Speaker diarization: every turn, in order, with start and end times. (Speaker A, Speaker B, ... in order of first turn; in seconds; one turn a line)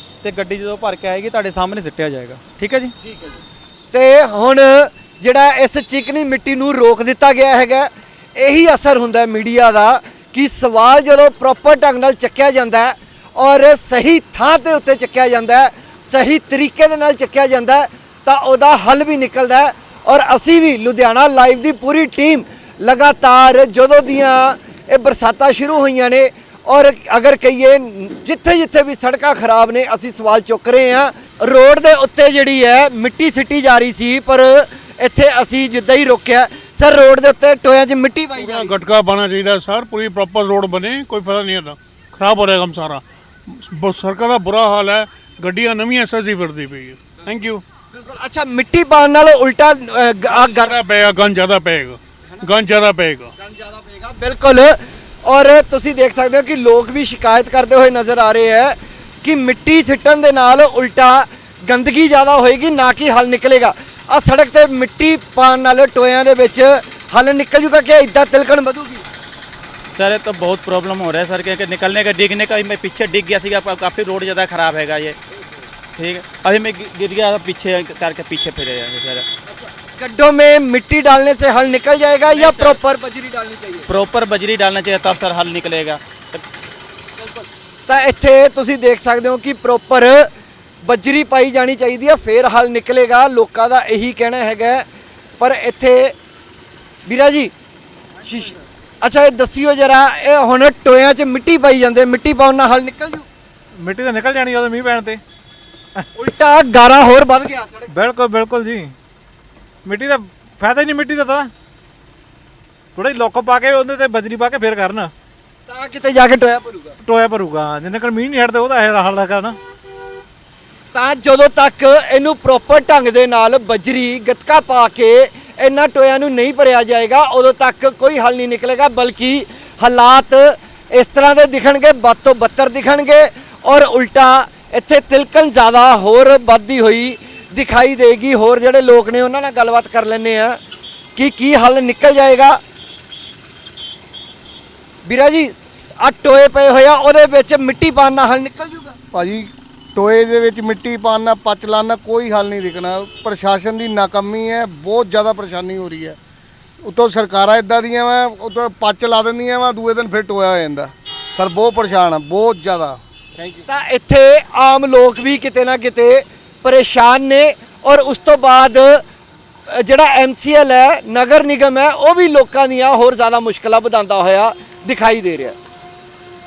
Speaker A: 0.2-2.9
Speaker B: 3.0-38.7
Speaker C: 38.4-43.0
Speaker C: 43.6-47.6
Speaker B: 47.9-50.8
Speaker C: 50.4-53.3
Speaker B: 53.4-69.0
Speaker D: 70.0-75.2
Speaker D: 76.0-79.3
Speaker B: 79.5-83.9
Speaker D: 82.3-82.8
Speaker D: 83.9-86.4
Speaker B: 87.2-90.3
Speaker B: 90.8-94.8
Speaker B: 95.4-96.1
Speaker B: 97.0-97.5
Speaker B: 98.2-103.3
Speaker E: 103.8-105.2
Speaker B: 106.1-107.9
Speaker E: 107.9-108.9
Speaker E: 109.8-111.5
Speaker E: 112.9-115.1
Speaker B: 115.7-117.0
Speaker E: 117.0-119.6
Speaker B: 120.9-140.6
Speaker B: 141.2-142.6
Speaker B: 145.0-148.9
Speaker F: 149.1-156.2
Speaker F: 156.8-163.6
Speaker B: 163.7-169.0
Speaker B: 169.7-175.5